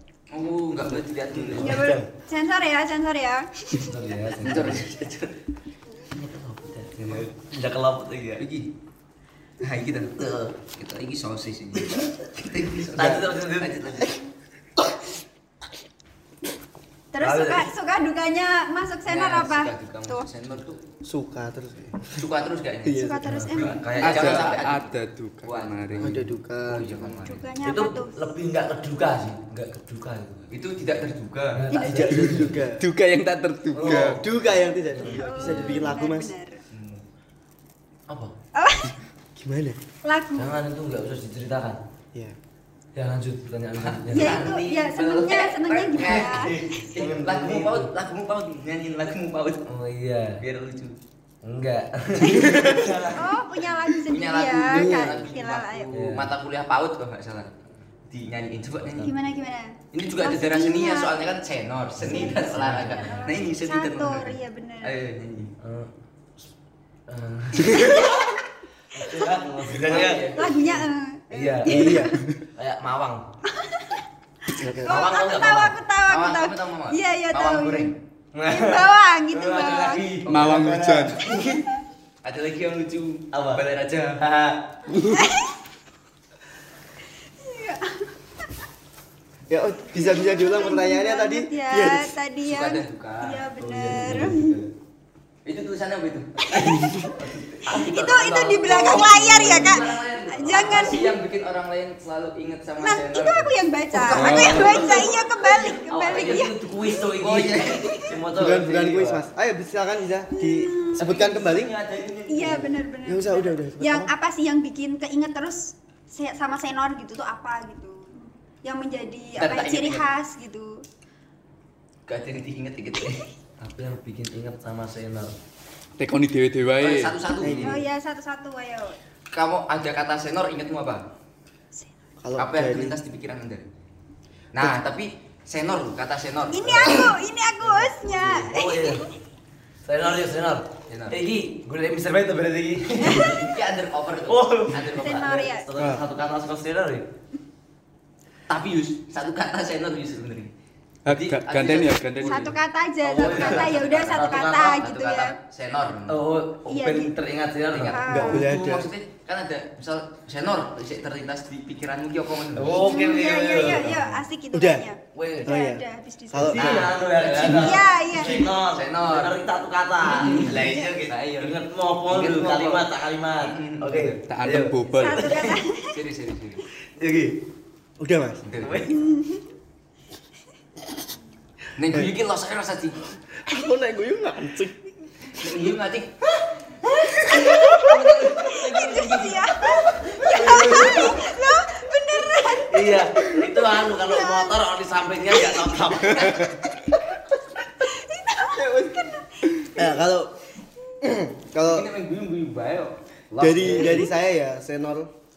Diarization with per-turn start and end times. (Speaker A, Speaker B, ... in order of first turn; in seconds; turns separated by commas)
Speaker A: 0.3-1.9, Speaker B: 1.3-2.1, Speaker C: 1.6-4.0, Speaker B: 3.8-5.2, Speaker A: 4.4-5.2, Speaker B: 6.1-8.4, Speaker A: 8.4-8.7, Speaker A: 9.6-10.1, Speaker B: 10.2-10.6, Speaker A: 10.7-14.1, Speaker B: 12.5-14.2, Speaker C: 17.1-20.2, Speaker B: 17.2-17.7, Speaker A: 19.1-20.8, Speaker D: 21.0-22.2, Speaker A: 22.1-24.9, Speaker D: 22.8-23.4, Speaker C: 22.9-23.9, Speaker B: 23.2-24.7, Speaker E: 24.0-26.2, Speaker A: 25.4-25.8, Speaker B: 25.9-26.2, Speaker D: 26.0-27.1, Speaker A: 26.6-27.5, Speaker C: 27.2-28.2, Speaker B: 27.6-30.5, Speaker A: 30.5-31.7, Speaker B: 31.5-32.6, Speaker C: 31.7-32.4, Speaker D: 31.8-32.8, Speaker E: 32.8-34.2, Speaker B: 33.7-35.9, Speaker D: 33.9-36.3, Speaker C: 35.1-36.6, Speaker A: 36.7-37.0, Speaker B: 38.1-38.3, Speaker C: 38.5-38.9, Speaker D: 39.4-39.8, Speaker C: 40.0-40.6, Speaker B: 40.4-41.8, Speaker B: 42.9-44.5, Speaker A: 43.8-49.6, Speaker C: 44.1-46.8, Speaker B: 46.0-47.9, Speaker B: 49.7-50.4, Speaker A: 50.4-51.0, Speaker B: 51.4-53.4, Speaker C: 52.2-55.9, Speaker A: 54.1-57.5, Speaker D: 54.6-55.3, Speaker B: 55.9-56.3, Speaker A: 58.1-59.1, Speaker C: 59.0-61.2, Speaker A: 59.9-65.5, Speaker C: 62.0-65.0, Speaker B: 62.0-63.3, Speaker B: 65.6-66.5, Speaker B: 67.1-68.2, Speaker C: 67.8-68.1, Speaker B: 68.9-70.6, Speaker A: 69.8-70.8, Speaker C: 70.3-72.2, Speaker B: 71.3-73.2, Speaker D: 71.7-72.1, Speaker C: 73.5-77.9, Speaker D: 74.6-75.1, Speaker B: 74.8-75.7, Speaker A: 76.1-78.0, Speaker B: 78.3-81.6, Speaker C: 78.5-80.0, Speaker A: 80.2-80.7, Speaker E: 80.3-81.2, Speaker D: 80.5-81.1, Speaker A: 82.2-84.2, Speaker B: 83.3-83.6, Speaker B: 84.2-84.6, Speaker E: 84.9-85.2, Speaker C: 85.1-85.5, Speaker C: 87.4-88.5, Speaker D: 89.5-92.1, Speaker C: 90.0-94.6, Speaker A: 92.4-93.4, Speaker B: 93.6-94.7, Speaker A: 95.4-103.5, Speaker C: 96.5-97.0, Speaker B: 96.6-99.7, Speaker C: 97.7-101.2, Speaker C: 102.8-107.0, Speaker B: 104.0-109.2, Speaker E: 104.1-104.9, Speaker A: 104.1-104.8, Speaker A: 106.1-106.5, Speaker A: 107.1-107.9, Speaker C: 107.7-108.1, Speaker D: 108.3-111.7, Speaker C: 110.3-111.0, Speaker A: 111.0-112.7, Speaker C: 112.3-120.8, Speaker D: 113.0-114.1, Speaker A: 119.4-120.0, Speaker A: 122.1-123.2, Speaker B: 123.6-125.3, Speaker E: 126.0-127.8, Speaker A: 126.8-127.7, Speaker D: 127.4-127.8, Speaker C: 127.6-129.0, Speaker A: 129.3-131.0, Speaker D: 132.2-132.9, Speaker A: 132.4-133.7, Speaker A: 134.5-137.1, Speaker C: 136.5-139.1, Speaker B: 137.7-139.1, Speaker B: 139.8-143.5, Speaker A: 140.9-141.2, Speaker C: 143.0-143.3, Speaker A: 143.1-145.4, Speaker B: 144.3-147.1, Speaker C: 144.9-145.7, Speaker D: 145.8-146.0, Speaker A: 148.5-150.5, Speaker E: 151.1-152.5, Speaker A: 151.1-152.5, Speaker C: 152.2-155.3, Speaker B: 153.0-154.8, Speaker A: 153.2-156.2, Speaker B: 156.1-158.3, Speaker C: 156.7-157.1, Speaker A: 157.7-162.9, Speaker C: 157.8-158.4, Speaker D: 158.1-158.9, Speaker B: 162.5-164.2, Speaker C: 162.8-166.6, Speaker D: 164.5-164.9, Speaker B: 165.1-165.5, Speaker D: 165.4-166.9, Speaker B: 166.4-175.6, Speaker A: 166.5-169.4, Speaker C: 167.3-168.5, Speaker A: 170.1-174.2, Speaker E: 170.2-170.5, Speaker C: 170.4-170.9, Speaker E: 174.3-175.4, Speaker C: 174.9-176.0, Speaker A: 175.8-176.6, Speaker B: 177.0-177.4, Speaker D: 178.0-178.4, Speaker A: 178.4-178.9, Speaker B: 178.6-179.0, Speaker C: 178.9-179.4, Speaker A: 181.8-183.1, Speaker D: 183.4-184.8, Speaker A: 185.2-186.4, Speaker C: 186.8-194.7, Speaker A: 187.7-191.1, Speaker B: 190.2-191.2, Speaker B: 192.6-196.6, Speaker C: 195.3-196.4, Speaker C: 197.8-200.0, Speaker D: 198.4-200.3, Speaker D: 201.0-201.9, Speaker A: 201.6-204.1, Speaker D: 203.4-205.1